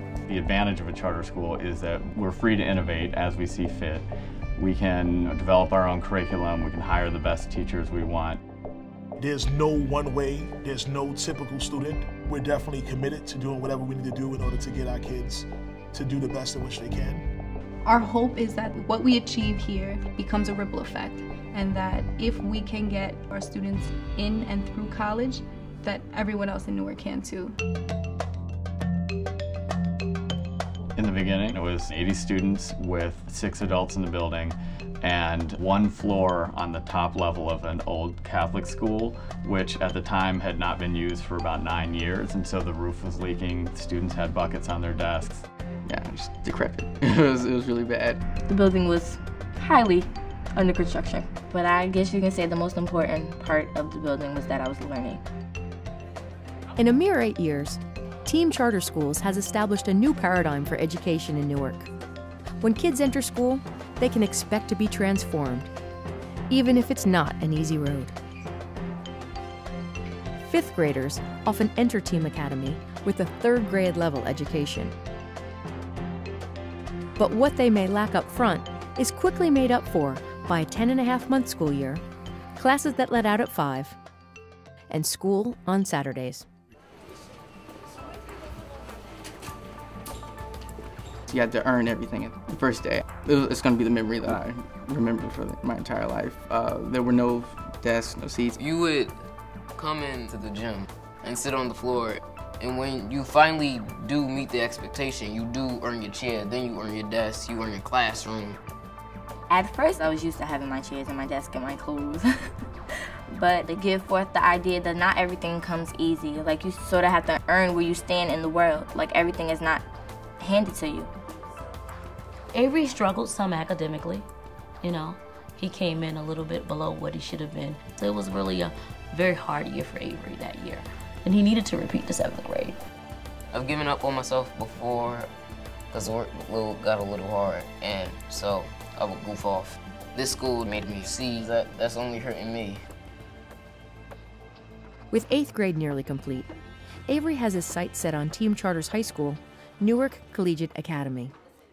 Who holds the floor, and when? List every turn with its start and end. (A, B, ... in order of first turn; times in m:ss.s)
0:00.3-0:04.1 A
0:04.6-0:08.4 A
0:09.2-0:17.2 B
0:17.8-0:27.6 C
0:31.0-0:45.4 A
0:45.9-0:48.2 D
0:48.5-0:55.2 E
0:56.8-1:01.9 F
1:02.6-1:05.7 F
1:06.5-1:08.1 F
1:10.4-1:14.9 F
1:17.2-1:22.0 F
1:22.6-1:24.0 F
1:24.9-1:26.4 F
1:31.3-1:38.6 D
1:38.5-1:39.2 G
1:39.8-1:48.6 G
1:49.5-1:52.2 E
1:53.3-1:59.8 E
2:00.4-2:01.1 E
2:02.5-2:04.3 H
2:04.8-2:12.8 H
2:13.5-2:15.3 G
2:15.9-2:22.8 G
2:25.1-2:26.5 F
2:27.1-2:31.3 F